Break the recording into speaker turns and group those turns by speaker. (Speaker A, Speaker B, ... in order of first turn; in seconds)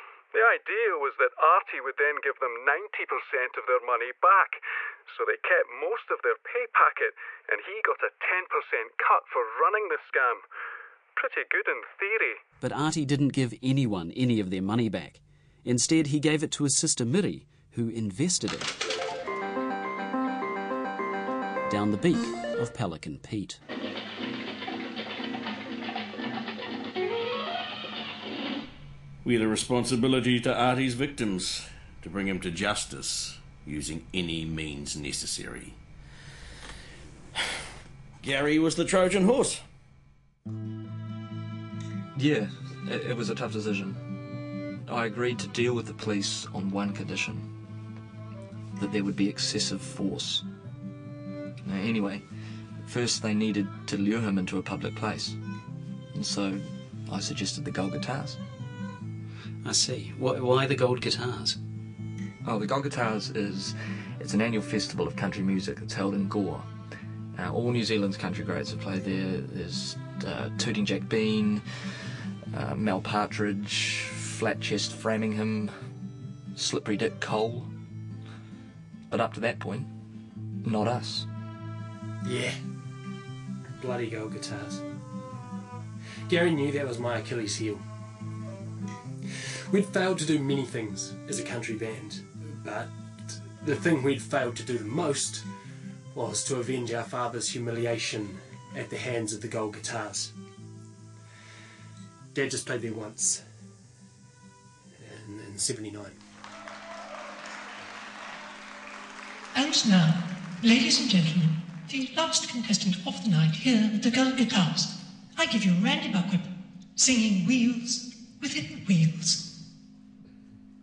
Speaker A: 0.3-10.4, 11.2-12.4
Speaker B: 12.6-18.7, 21.7-23.6, 59.6-61.6
Speaker C: 29.2-35.8, 38.2-39.6
Speaker D: 42.1-44.0, 44.9-47.5, 48.8-50.4, 51.6-52.2, 52.8-55.4, 56.1-58.4, 62.4-66.7, 67.3-71.6, 72.5-75.7, 76.5-77.7, 79.1-79.9, 80.6-81.3
Speaker E: 82.2-82.6, 83.8-84.8, 86.3-87.8, 89.7-95.5, 96.1-100.3, 102.3-103.4, 105.0-106.2
Speaker F: 109.5-119.5